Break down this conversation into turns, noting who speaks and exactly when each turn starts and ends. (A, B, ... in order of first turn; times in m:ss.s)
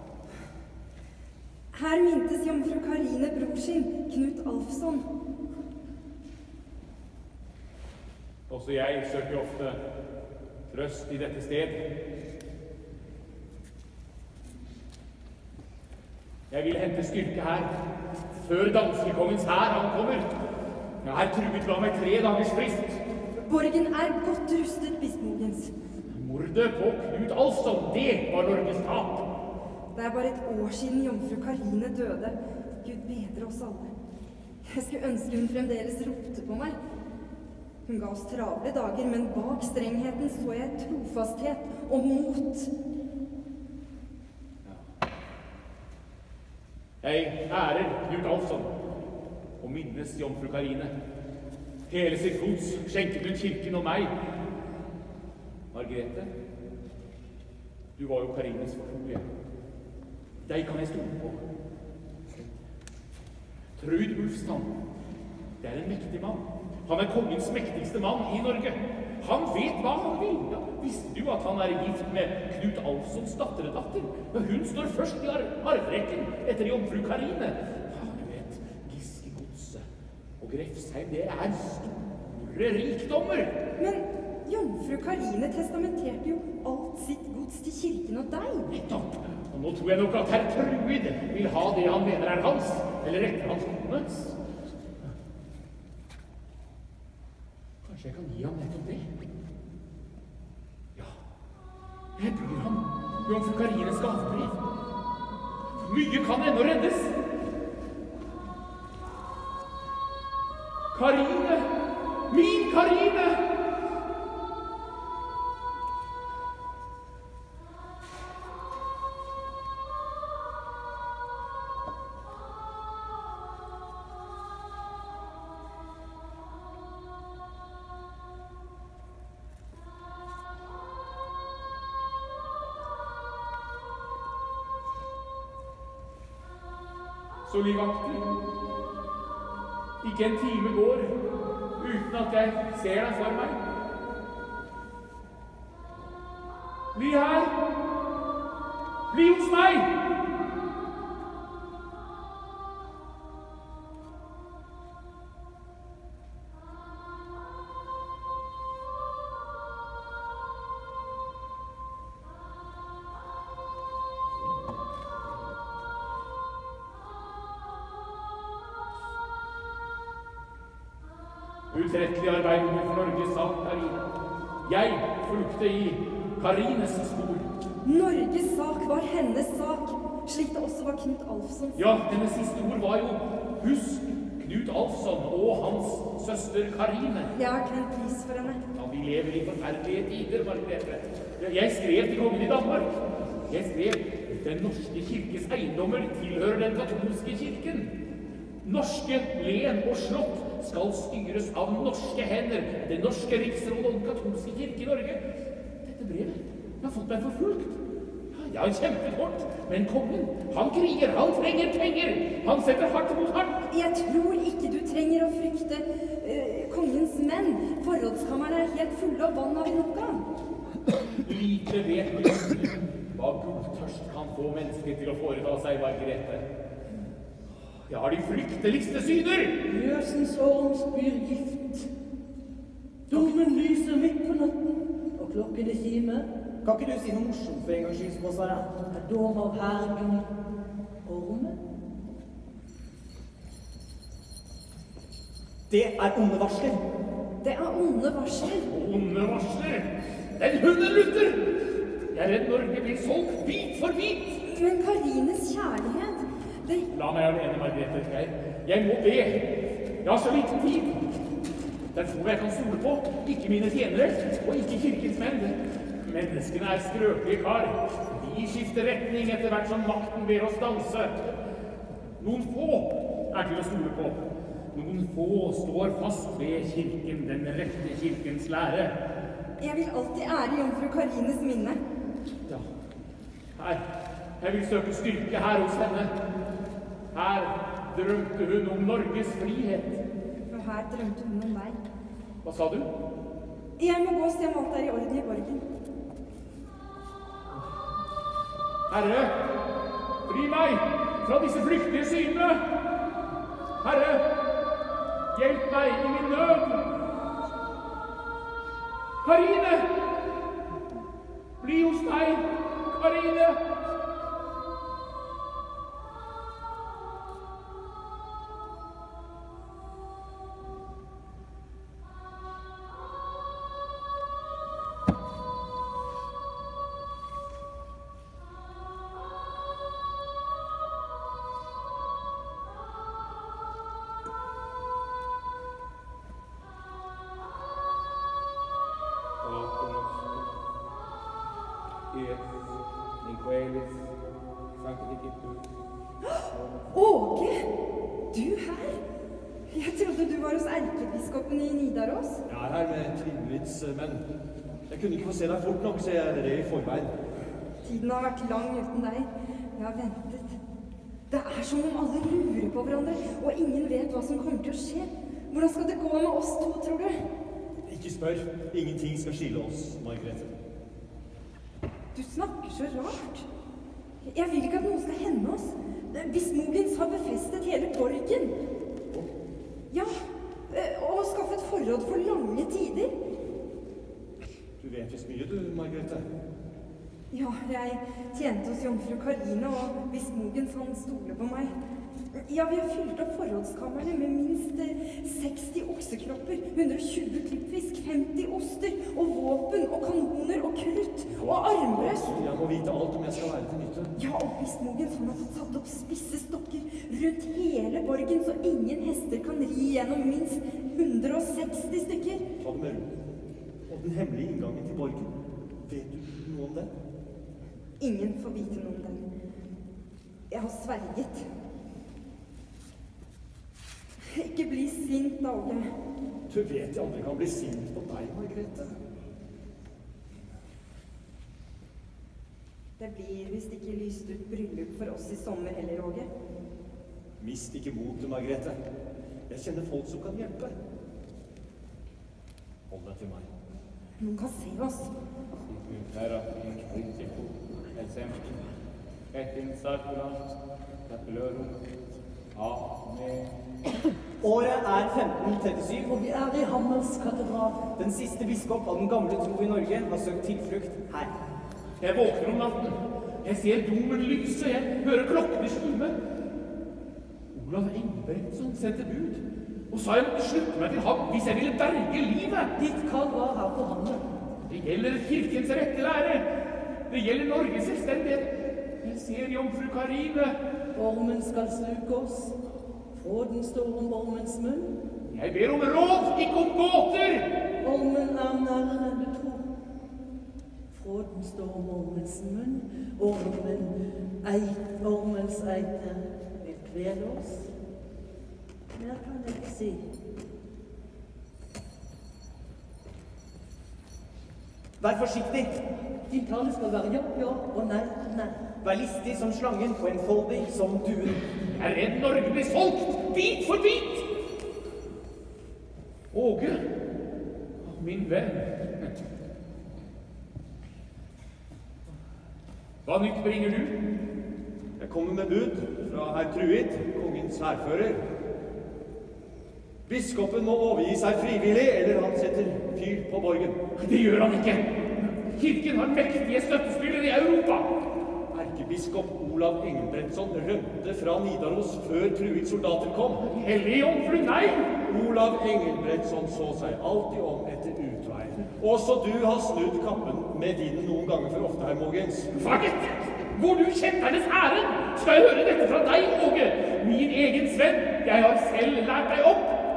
0:01.7-0:05.1 A
0:08.5-0:09.8 B
0:10.7-0:11.8 B
0:16.5-0:17.7 B
0:18.3-0:20.3 B
0:21.0-0:23.0 B
0:23.4-0:25.7 A
0:26.1-0:29.2 B
0:29.9-0:33.9 A
0:34.6-0:36.8 A
0:37.9-0:42.7 A
0:47.0-0:48.8 B
0:49.6-0:50.9 B
0:51.9-0:54.1 B
0:55.7-0:56.3 B
0:58.0-0:59.2 B
1:00.4-1:01.4 B
1:02.3-1:02.6 B
1:03.8-1:04.7 B
1:05.6-1:19.8 B
1:20.4-1:23.5 B
1:23.8-1:28.7 A
1:28.7-1:34.4 B
1:37.8-1:39.1 B
1:42.2-1:44.6 B
1:45.8-1:47.1 B
1:50.9-1:51.7 B
1:52.3-1:53.4 B
2:17.5-2:18.3 B
2:20.0-2:21.2 B
2:21.8-2:23.6 B
2:26.9-2:27.5 B
2:29.1-2:29.9 B
2:51.7-2:54.1 B
2:54.6-2:57.5 B
2:57.8-3:01.8 A
3:01.8-3:07.3 B
3:07.3-3:08.6 A
3:08.8-3:17.9 B
3:18.6-3:25.2 B
3:25.8-3:27.8 B
3:28.3-3:33.6 B
3:33.7-3:40.2 A
3:41.2-3:46.4 B
3:47.9-3:49.6 B
3:49.7-3:51.9 C
3:53.1-3:56.3 C
3:56.6-3:58.7 D
3:58.9-4:00.3 C
4:01.0-4:01.6 C
4:05.7-4:06.8 D
4:07.4-4:08.7 A
4:08.7-4:11.5 B
4:12.1-4:14.4 B
4:14.4-4:16.9 A
4:16.9-4:19.4 B
4:20.0-4:21.1 B
4:21.9-4:31.2 B
4:32.2-4:39.0 B
4:39.6-4:41.8 A
4:43.6-4:43.8 B
4:44.4-4:46.1 B
4:47.1-4:50.0 B
4:50.5-4:51.8 A
4:52.4-4:52.9 B
4:53.8-4:55.7 A
4:58.9-4:59.4 B
5:00.3-5:02.6 B
5:03.8-5:04.3 B
5:05.3-5:06.8 B
5:09.2-5:09.9 B
5:11.6-5:13.6 B
5:39.4-5:40.4 B
5:42.1-5:44.1 B
5:44.8-5:45.6 B
5:46.2-5:47.7 A
5:48.3-5:49.0 A
5:49.7-5:52.4 A
5:52.5-5:54.2 E
5:54.9-5:57.1 E
5:57.8-6:00.6 A
6:01.3-6:07.2 A
6:07.8-6:10.5 E
6:12.1-6:13.5 A
6:14.2-6:18.6 A
6:20.7-6:23.1 A
6:24.8-6:26.3 E
6:27.3-6:31.8 A
6:32.3-6:42.3 A
6:41.3-6:44.1 E
6:44.2-6:52.4 A
6:52.6-6:53.2 E
6:53.9-6:55.3 E
6:55.9-6:56.9 E
6:58.0-6:59.3 A
7:00.5-7:01.5 A
7:04.2-7:05.9 A
7:06.5-7:09.0 E
7:13.0-7:16.3 A
7:17.4-7:18.8 E
7:19.5-7:20.7 E
7:22.9-7:23.5 E
7:24.2-7:25.1 A
7:25.7-7:28.7 B
7:29.3-7:30.4 B
7:31.1-7:31.8 B
7:32.6-7:33.5 B
7:34.4-7:36.1 D
7:36.0-7:37.8 C
7:38.0-7:41.3 D
7:42.0-7:46.2 B
7:47.5-7:52.7 B
7:52.8-7:54.2 C
7:54.6-7:56.5 B
7:57.1-8:00.6 B
8:01.0-8:02.6 C
8:03.1-8:05.0 C
8:05.3-8:07.5 B
8:07.8-8:09.7 C
8:10.9-8:17.7 C
8:18.9-8:20.0 C
8:25.0-8:25.8 D
8:26.3-8:28.6 C
8:28.8-8:31.4 D
8:31.8-8:34.3 B
8:36.3-8:36.8 B
8:37.8-8:39.1 B
8:43.0-8:44.0 B
8:45.0-8:48.2 E
8:50.1-8:53.8 E
8:54.0-8:57.9 B
8:58.5-9:03.4 E
9:03.4-9:04.9 B
9:05.0-9:12.5 E
9:12.5-9:19.8 B